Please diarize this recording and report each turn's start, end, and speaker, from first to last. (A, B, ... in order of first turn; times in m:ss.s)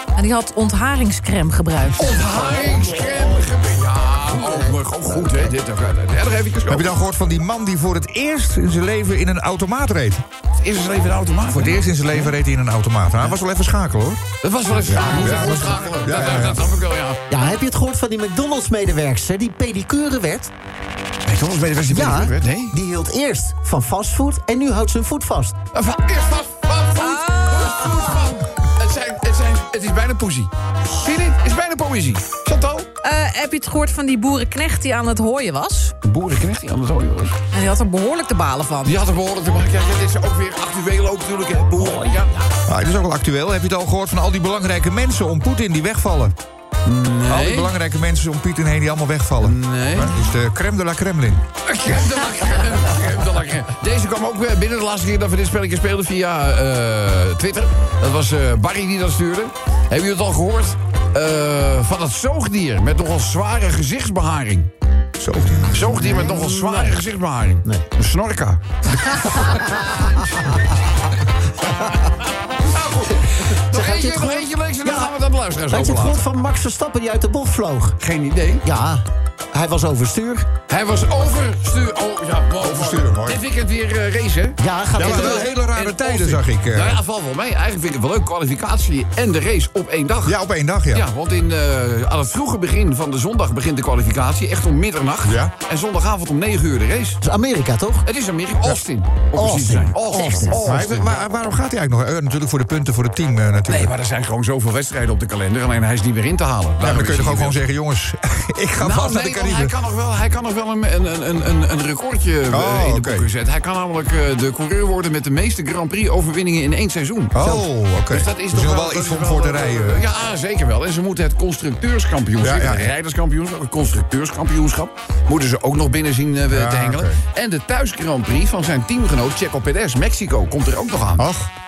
0:00.2-0:02.3 A
0:02.0-0:06.9 B
0:02.5-0:02.8 C
0:04.4-0:05.4 C
0:06.7-0:10.2 D
0:10.6-0:11.9 B
0:11.5-0:14.2 D
0:14.4-0:17.2 B
0:14.8-0:16.7 D
0:17.3-0:20.5 C
0:21.2-0:22.7 B
0:21.9-0:25.6 C
0:25.7-0:32.9 B
0:27.0-0:28.2 A
0:33.0-0:35.9 A
0:36.0-0:37.4 B
0:37.5-0:39.0 A
0:38.8-0:42.3 B
0:41.7-0:42.5 C
0:42.6-0:46.3 D
0:46.8-0:47.7 B
0:47.3-0:51.4 D
0:49.4-0:50.1 B
0:51.6-1:04.7 B
1:05.2-1:06.1 D
1:05.7-1:08.6 B
1:05.9-1:06.9 C
1:09.1-1:10.2 C
1:09.1-1:10.2 B
1:12.6-1:16.2 B
1:13.5-1:15.1 C
1:15.7-1:18.0 C
1:18.0-1:18.7 B
1:18.6-1:20.5 C
1:20.7-1:30.4 B
1:22.6-1:23.4 D
1:24.6-1:25.5 C
1:25.0-1:27.0 D
1:30.2-1:31.0 D
1:30.9-1:37.2 B
1:35.2-1:35.5 D
1:37.2-1:38.0 C
1:38.0-1:41.1 B
1:39.3-1:40.6 C
1:40.6-1:43.9 D
1:43.7-1:47.6 B
1:46.8-1:49.7 D
1:48.8-2:11.3 B
1:52.5-1:53.3 D
1:57.3-2:00.1 D
2:02.4-2:02.9 D
2:06.5-2:07.2 D
2:11.2-2:11.5 D